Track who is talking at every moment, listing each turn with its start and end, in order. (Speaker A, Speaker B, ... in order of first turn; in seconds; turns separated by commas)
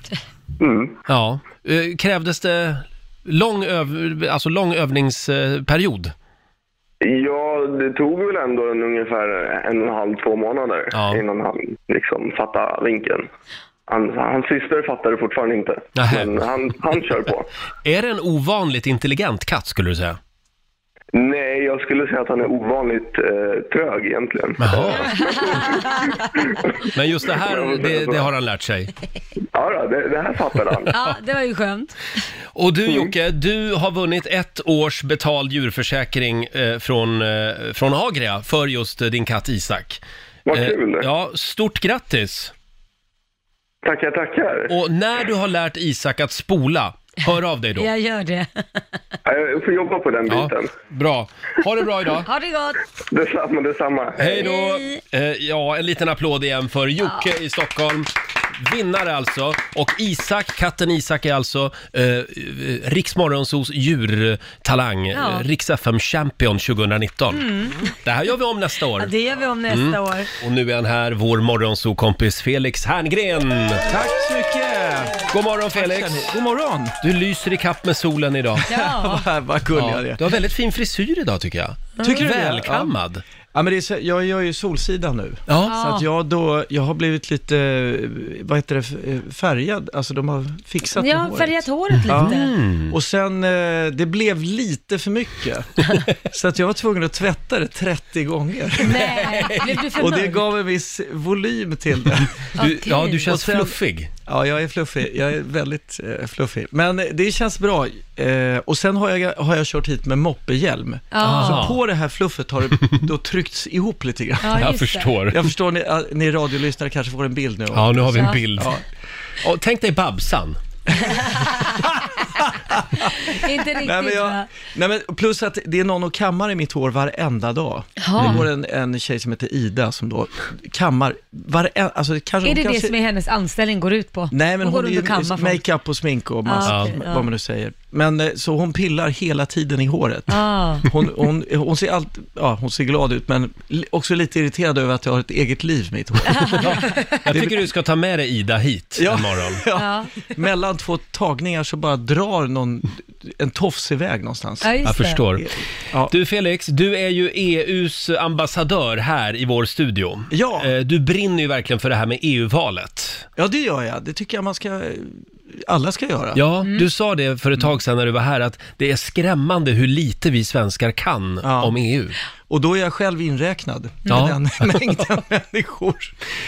Speaker A: 0.6-0.9, Speaker B: 1.1-6.1, Speaker A: 7.0-13.3, Speaker B: 10.9-11.2, Speaker A: 13.9-17.5, Speaker B: 15.9-16.4, Speaker B: 17.8-20.2, Speaker A: 21.1-26.6, Speaker B: 24.6-25.2, Speaker B: 26.9-28.9, Speaker A: 27.3-28.3, Speaker A: 29.5-30.9, Speaker C: 30.9-31.9, Speaker B: 32.5-40.0, Speaker A: 40.5-41.0, Speaker B: 40.5-42.5, Speaker A: 43.8-44.7, Speaker B: 44.7-47.9, Speaker C: 47.8-48.8, Speaker A: 49.2-50.7, Speaker B: 50.3-52.3, Speaker C: 52.2-52.8, Speaker A: 53.1-54.4, Speaker B: 54.2-67.5, Speaker C: 54.4-55.0, Speaker C: 65.1-65.5, Speaker C: 67.3-67.9, Speaker B: 68.0-69.1, Speaker C: 69.0-70.3, Speaker B: 69.7-73.8, Speaker D: 73.8-76.9, Speaker B: 75.3-76.4, Speaker B: 77.0-78.7, Speaker D: 78.7-80.4, Speaker C: 78.7-79.3, Speaker B: 79.7-83.2, Speaker C: 82.0-82.3, Speaker D: 82.0-82.9, Speaker D: 83.5-92.3, Speaker B: 85.5-85.7, Speaker C: 85.6-86.1, Speaker C: 90.9-92.5, Speaker B: 92.0-93.0, Speaker D: 92.9-102.5, Speaker C: 98.8-100.5, Speaker B: 99.2-99.7, Speaker B: 102.5-104.1, Speaker C: 102.6-103.3, Speaker D: 103.3-114.7, Speaker C: 111.1-111.7, Speaker B: 111.2-111.8, Speaker B: 112.8-113.0, Speaker C: 114.4-115.1, Speaker B: 114.5-115.5, Speaker D: 115.3-118.8, Speaker B: 117.7-118.8, Speaker C: 118.1-118.4, Speaker B: 119.4-120.6, Speaker D: 121.1-121.6, Speaker C: 121.2-121.6, Speaker D: 122.4-123.1, Speaker C: 123.2-124.5, Speaker D: 123.8-132.9, Speaker C: 128.0-128.4, Speaker B: 128.2-128.5, Speaker C: 132.4-135.6, Speaker D: 134.3-147.7, Speaker C: 136.4-137.3, Speaker B: 136.6-136.9, Speaker C: 140.3-140.9, Speaker C: 146.3-146.9, Speaker B: 146.4-149.6, Speaker D: 148.9-154.8, Speaker C: 149.7-150.2, Speaker C: 154.6-155.2, Speaker B: 154.8-155.5, Speaker D: 155.4-156.1, Speaker B: 156.1-163.3, Speaker D: 160.3-160.7, Speaker D: 163.3-166.4, Speaker B: 166.3-172.2, Speaker D: 171.4-171.8, Speaker D: 172.5-176.1, Speaker B: 174.1-175.1